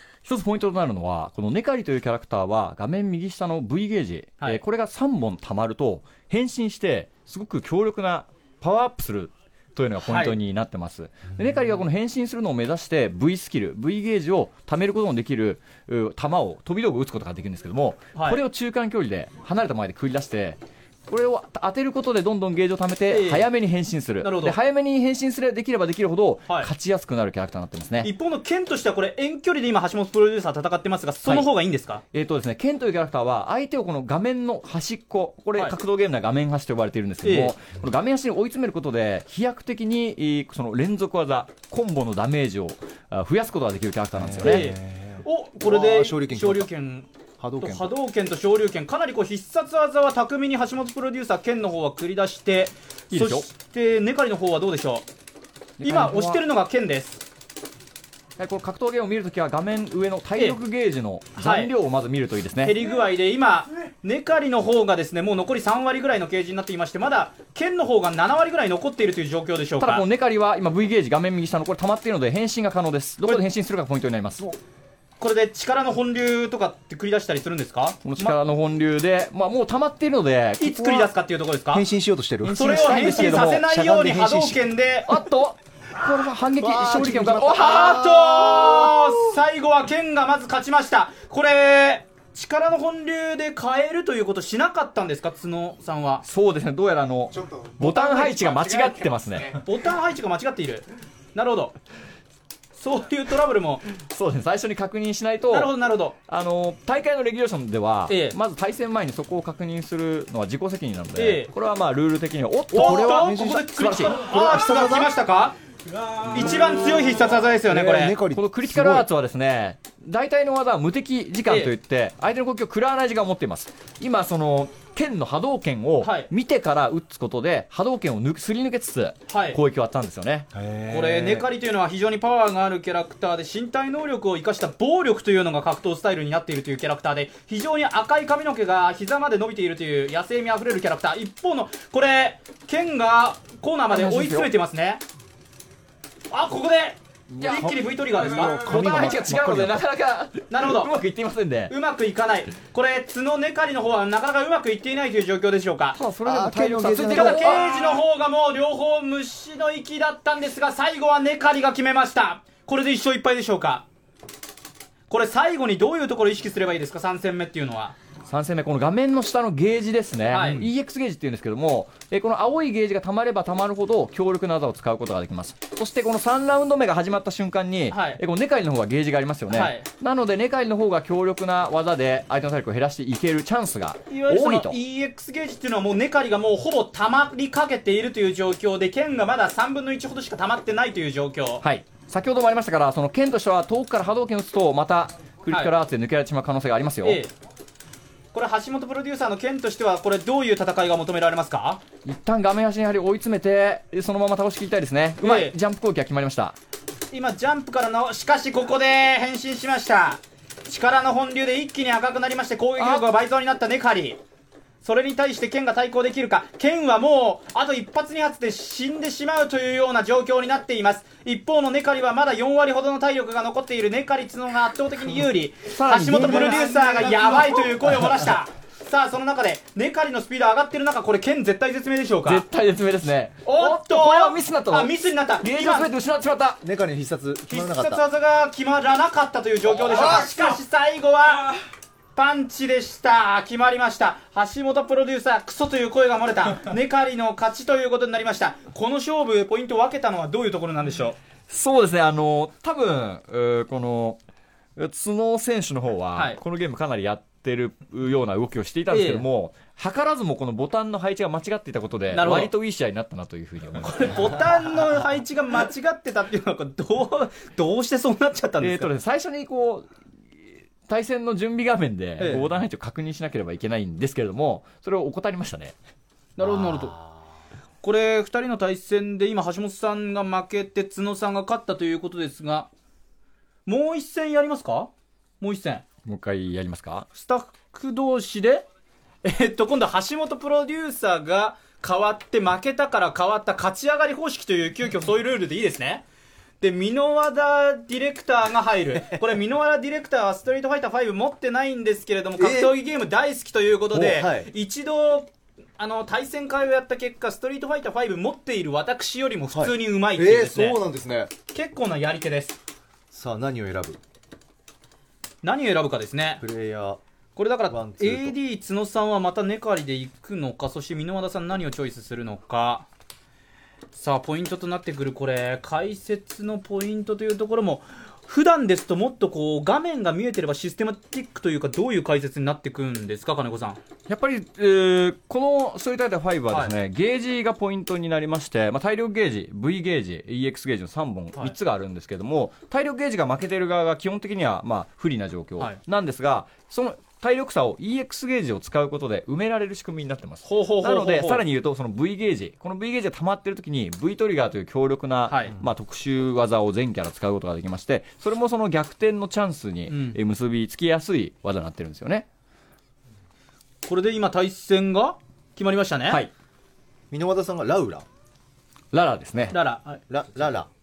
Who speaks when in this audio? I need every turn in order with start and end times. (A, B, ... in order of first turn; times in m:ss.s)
0:00.2-0:28.1 A
0:10.0-0:10.3 B
0:18.1-0:18.4 B
0:23.1-0:23.5 B
0:24.2-0:24.6 B
0:28.0-0:32.0 B
0:32.1-0:44.7 A
0:37.2-0:37.5 B
0:44.2-0:46.7 C
0:44.4-0:47.1 B
0:47.4-0:47.9 C
0:47.6-0:55.0 B
0:53.1-0:53.4 A
0:55.8-0:56.4 A
0:55.8-0:57.2 B
0:58.4-1:02.9 A
1:01.4-1:01.7 B
1:02.6-1:10.0 B
1:09.8-1:14.4 A
1:15.2-1:18.4 B
1:18.0-1:21.1 A
1:20.6-1:21.8 B
1:21.7-1:24.7 C
1:22.4-1:25.2 B
1:22.5-1:23.6 A
1:25.1-1:28.0 A
1:26.6-1:29.2 C
1:27.5-1:36.2 B
1:36.2-1:39.6 A
1:37.8-1:41.7 B
1:42.7-1:43.8 B
1:44.0-1:45.7 A
1:45.5-1:46.2 B
1:46.2-1:54.2 A
1:48.1-1:48.4 B
1:51.2-1:51.5 B
1:52.7-1:55.1 C
1:52.7-1:55.6 B
1:56.3-1:59.1 C
1:56.3-1:58.2 B
1:58.3-2:10.5 A
2:01.5-2:01.7 B
2:06.0-2:06.3 B
2:09.3-2:09.6 B
2:10.5-2:11.5 C
2:10.9-2:25.0 B
2:23.9-2:24.5 A
2:26.3-2:29.2 B
2:27.3-2:31.7 A
2:27.4-2:29.8 C
2:30.5-2:30.9 B
2:31.7-2:36.0 B
2:35.9-2:37.9 A
2:36.2-2:37.7 C
2:37.0-2:43.8 B
2:45.1-2:48.0 B
2:48.3-3:04.8 A
2:50.3-2:50.7 B
2:50.4-2:50.7 C
2:57.9-2:58.2 B
2:59.5-2:59.8 B
3:04.1-3:11.6 B
3:11.6-3:17.2 A
3:17.0-3:17.3 B
3:18.3-3:21.8 B
3:22.0-3:26.6 A
3:25.2-3:25.5 B
3:27.1-3:34.2 B
3:32.8-3:33.1 A
3:34.8-3:52.4 B
3:45.7-3:47.3 A
3:46.1-3:48.1 C
3:52.2-3:56.6 A
3:53.4-3:55.9 B
3:56.6-3:58.0 C
3:57.5-4:01.5 B
3:59.9-4:00.6 C
4:00.0-4:00.3 A
4:02.2-4:11.2 B
4:11.5-4:14.2 A
4:14.8-4:24.4 A
4:16.1-4:16.4 B
4:18.9-4:19.2 B
4:22.1-4:22.5 B
4:23.8-4:28.9 B
4:28.6-4:29.9 A
4:30.9-4:35.7 A
4:32.2-4:32.4 B
4:36.4-4:36.9 B
4:36.4-4:37.2 C
4:37.8-4:42.7 B
4:43.6-4:45.8 B
4:46.0-4:47.1 A
4:47.1-4:48.6 B
4:49.2-4:56.0 B
4:56.6-5:10.8 B
5:02.4-5:02.7 C
5:03.9-5:04.5 C
5:09.5-5:11.3 C
5:11.5-5:12.6 B
5:13.1-5:14.0 C
5:15.4-5:16.4 B
5:16.4-5:17.0 C
5:17.4-5:22.9 B
5:17.7-5:18.4 C
5:23.9-5:33.8 B
5:34.1-6:02.2 A
5:36.5-5:36.7 B
5:50.4-5:51.4 B
5:55.3-5:55.6 B
5:59.9-6:00.2 B
6:03.9-6:06.2 B
6:07.1-6:08.0 C
6:08.9-6:09.6 A
6:09.5-6:10.0 B
6:10.1-6:10.7 C